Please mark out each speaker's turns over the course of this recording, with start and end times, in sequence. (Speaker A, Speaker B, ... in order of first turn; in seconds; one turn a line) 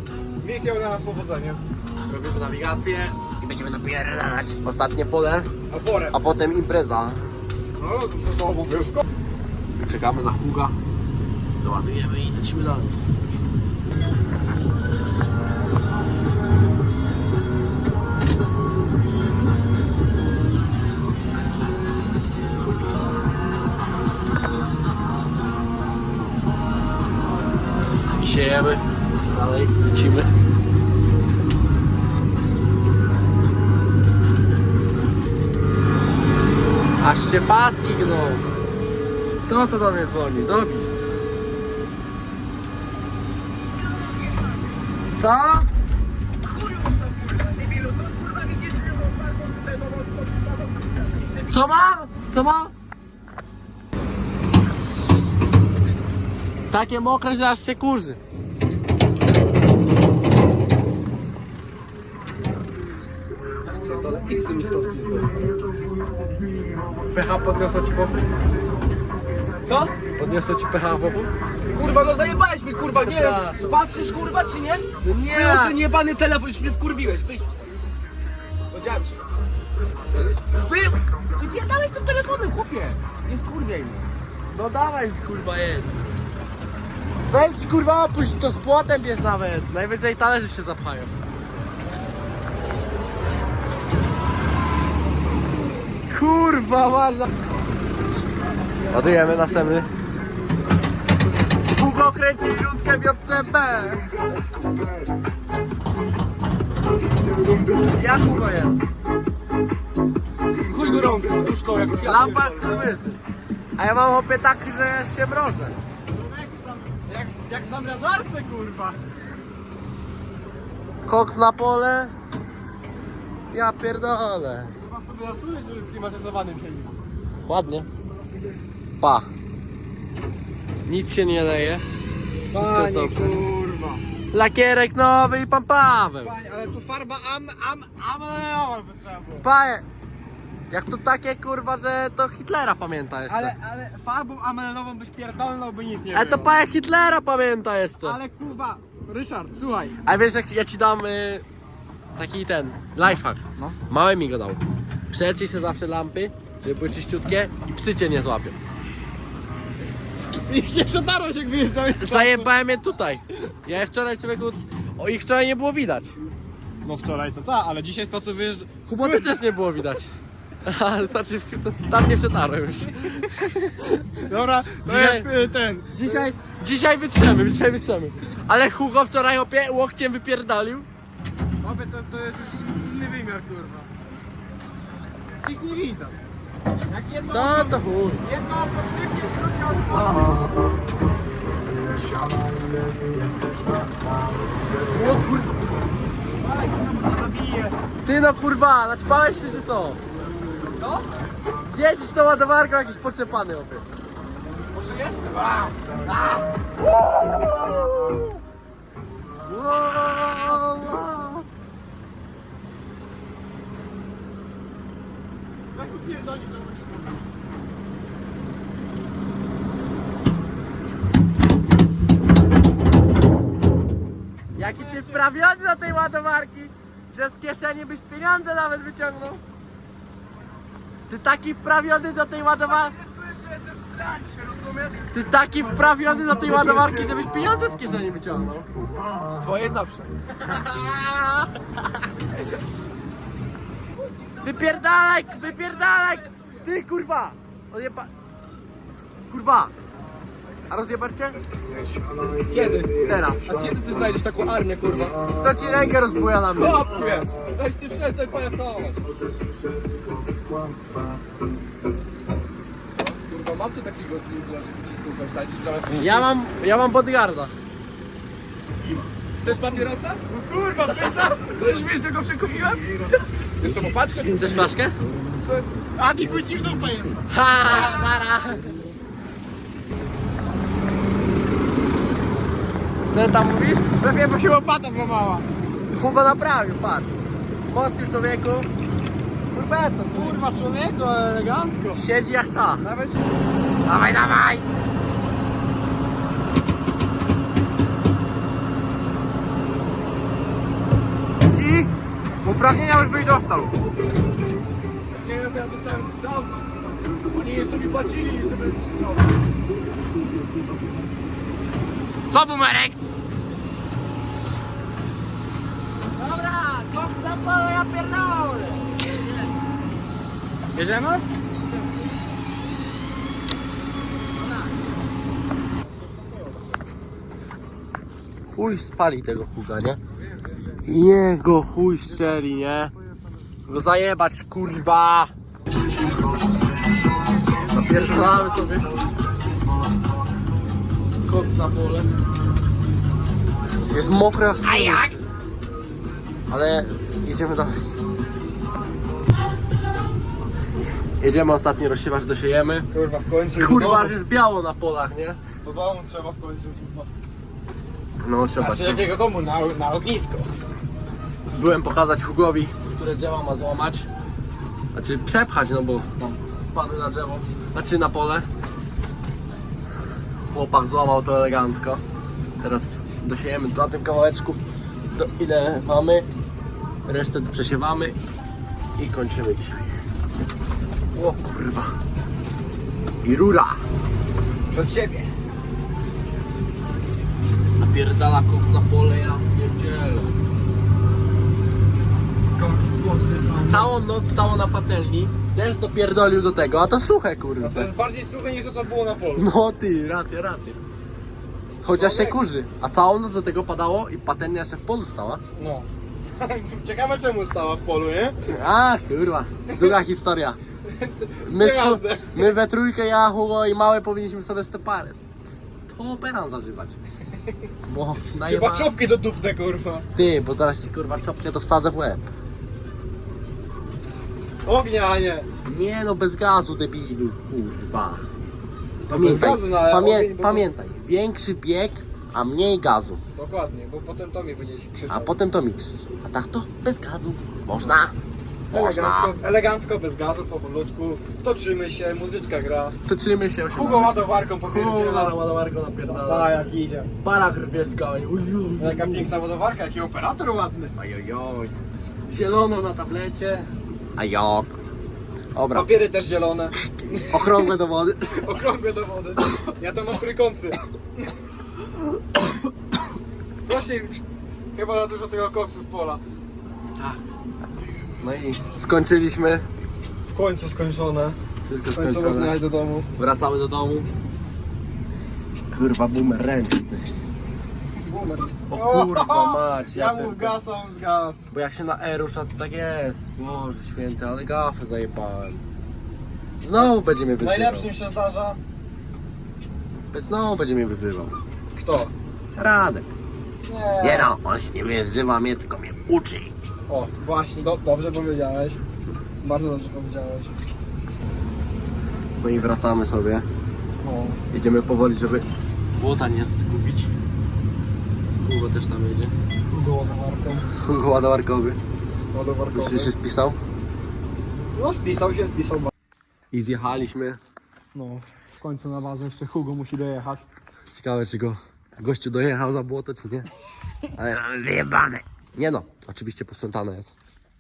Speaker A: 0.4-1.6
Speaker B: 2.1-5.5
Speaker A: 5.7-6.2
Speaker B: 6.1-7.2
Speaker A: 7.8-9.0
Speaker B: 9.8-10.8
Speaker B: 11.6-13.0
Speaker B: 28.2-30.3
Speaker B: 37.0-38.4
Speaker B: 39.5-41.1
Speaker B: 45.2-45.7
Speaker C: 46.4-51.5
Speaker B: 51.5-52.7
Speaker B: 56.7-58.2
Speaker B: 63.9-64.4
Speaker C: 63.9-65.3
Speaker B: 67.1-68.3
Speaker C: 69.7-69.9
Speaker B: 70.2-71.3
Speaker C: 71.7-77.7
Speaker B: 72.9-73.7
Speaker B: 75.0-75.8
Speaker C: 78.7-79.2
Speaker C: 80.5-84.0
Speaker B: 84.5-85.9
Speaker B: 87.3-91.1
Speaker B: 96.1-97.3
Speaker B: 98.9-99.9
Speaker B: 101.7-104.1
Speaker B: 107.9-108.8
Speaker A: 110.7-112.9
Speaker C: 110.7-112.3
Speaker B: 112.0-113.2
Speaker B: 113.8-115.8
Speaker A: 116.1-119.0
Speaker B: 121.1-122.1
Speaker B: 123.5-124.7
Speaker A: 124.9-126.9
Speaker B: 127.5-127.9
Speaker B: 129.0-129.3
Speaker B: 130.8-131.8
Speaker A: 132.5-134.0
Speaker B: 132.5-133.4
Speaker B: 134.3-136.3
Speaker A: 136.2-139.5
Speaker B: 139.4-139.8
Speaker B: 140.7-143.5
Speaker A: 143.3-146.5
Speaker B: 146.1-148.2
Speaker A: 148.0-150.0
Speaker B: 150.0-151.4
Speaker B: 152.2-158.6
Speaker A: 160.5-162.5
Speaker B: 161.9-166.1
Speaker A: 166.8-169.3
Speaker B: 168.9-174.1
Speaker A: 174.1-176.3
Speaker B: 174.8-175.3
Speaker B: 175.9-180.9
Speaker A: 181.6-183.9
Speaker A: 185.4-186.2
Speaker A: 186.8-190.5
Speaker B: 187.3-188.2
Speaker B: 194.9-195.5
Speaker A: 196.4-197.7
Speaker B: 198.0-200.0
Speaker A: 200.8-201.0
Speaker B: 201.7-203.8
Speaker A: 204.7-205.7
Speaker C: 205.4-205.7
Speaker B: 206.8-208.3
Speaker B: 209.4-211.4
Speaker A: 215.8-216.9
Speaker B: 224.6-229.4
Speaker A: 224.8-225.2
Speaker B: 231.1-232.9
Speaker C: 232.8-235.0
Speaker B: 235.1-238.7
Speaker C: 239.2-240.1
Speaker B: 240.4-241.5
Speaker C: 244.0-246.6
Speaker B: 244.4-248.1
Speaker B: 249.3-249.7
Speaker B: 250.7-251.4
Speaker A: 252.5-252.9
Speaker B: 253.0-253.5
Speaker C: 253.4-255.2
Speaker B: 255.3-256.9
Speaker A: 256.6-257.3
Speaker C: 257.5-259.0
Speaker C: 263.0-266.3
Speaker B: 265.9-267.5
Speaker C: 269.4-270.2
Speaker A: 270.3-271.7
Speaker C: 271.1-273.0
Speaker C: 273.6-274.7
Speaker B: 274.3-275.0
Speaker A: 275.4-277.2
Speaker C: 276.2-276.7
Speaker B: 277.3-278.8
Speaker B: 283.1-283.9
Speaker A: 283.9-285.4
Speaker B: 285.9-288.7
Speaker B: 289.5-290.4
Speaker A: 290.1-292.0
Speaker B: 291.9-292.8
Speaker A: 292.8-293.2
Speaker B: 293.9-294.6
Speaker A: 301.5-301.9
Speaker A: 302.4-303.7
Speaker B: 305.2-305.6
Speaker C: 305.2-306.9
Speaker B: 307.3-308.4
Speaker C: 307.5-309.1
Speaker B: 312.3-312.9
Speaker B: 316.1-319.5
Speaker A: 320.7-321.2
Speaker A: 325.9-326.7
Speaker B: 328.5-330.0
Speaker B: 330.8-332.9
Speaker B: 333.7-335.3
Speaker B: 337.6-338.9
Speaker B: 341.2-342.1
Speaker B: 343.9-345.2
Speaker B: 346.5-347.8
Speaker B: 351.2-352.9
Speaker A: 352.9-354.2
Speaker B: 353.5-355.4
Speaker A: 355.6-357.1
Speaker B: 358.2-359.1
Speaker A: 358.6-360.5
Speaker B: 361.5-364.1
Speaker B: 364.9-368.5
Speaker B: 370.5-372.0
Speaker B: 372.6-374.6
Speaker B: 375.1-376.3
Speaker B: 377.1-378.2
Speaker B: 379.0-379.9
Speaker B: 381.1-381.9
Speaker B: 383.2-383.8
Speaker A: 384.7-385.3
Speaker B: 387.8-390.3
Speaker A: 392.5-393.9
Speaker B: 393.6-397.9
Speaker A: 397.6-399.4
Speaker B: 399.3-400.8
Speaker B: 401.8-405.4
Speaker A: 401.8-402.4
Speaker A: 405.6-408.4
Speaker B: 408.5-410.6
Speaker A: 409.7-410.0
Speaker A: 410.9-412.4
Speaker B: 411.4-415.3
Speaker B: 415.9-417.0
Speaker B: 417.9-418.9
Speaker A: 418.5-420.0
Speaker B: 420.1-422.2
Speaker A: 424.6-425.5
Speaker B: 425.6-428.2
Speaker B: 429.1-433.2
Speaker A: 429.1-430.7
Speaker A: 433.3-435.3
Speaker B: 435.1-438.1
Speaker A: 438.7-442.9
Speaker B: 438.7-439.3
Speaker B: 443.1-446.6
Speaker A: 443.7-445.4
Speaker A: 446.1-447.1
Speaker B: 447.2-449.3
Speaker A: 448.8-450.9
Speaker B: 450.9-451.7
Speaker B: 452.3-454.7
Speaker B: 455.5-455.9
Speaker A: 455.7-457.7
Speaker B: 457.3-458.4
Speaker A: 458.3-460.8
Speaker A: 463.6-464.2
Speaker A: 464.7-466.2
Speaker B: 468.2-469.6
Speaker A: 470.3-471.4
Speaker B: 471.6-472.6
Speaker A: 471.9-473.1
Speaker B: 473.2-474.1
Speaker B: 475.7-477.1
Speaker A: 478.0-481.5
Speaker B: 478.7-480.6
Speaker B: 481.5-485.6
Speaker B: 486.6-487.9
Speaker A: 487.4-488.6
Speaker B: 490.1-491.4
Speaker A: 491.8-492.1
Speaker B: 492.5-493.1
Speaker A: 493.6-494.3
Speaker B: 494.0-496.5
Speaker A: 496.9-498.8
Speaker A: 499.4-500.5
Speaker B: 502.4-503.4
Speaker A: 504.0-504.4
Speaker B: 504.5-505.4
Speaker B: 505.9-507.1
Speaker B: 508.4-509.3
Speaker A: 509.7-510.7
Speaker B: 510.8-511.8
Speaker A: 512.3-513.1
Speaker B: 512.7-513.6
Speaker A: 514.8-515.9
Speaker B: 516.5-517.4
Speaker A: 517.9-520.4
Speaker B: 520.9-523.5
Speaker B: 524.1-527.1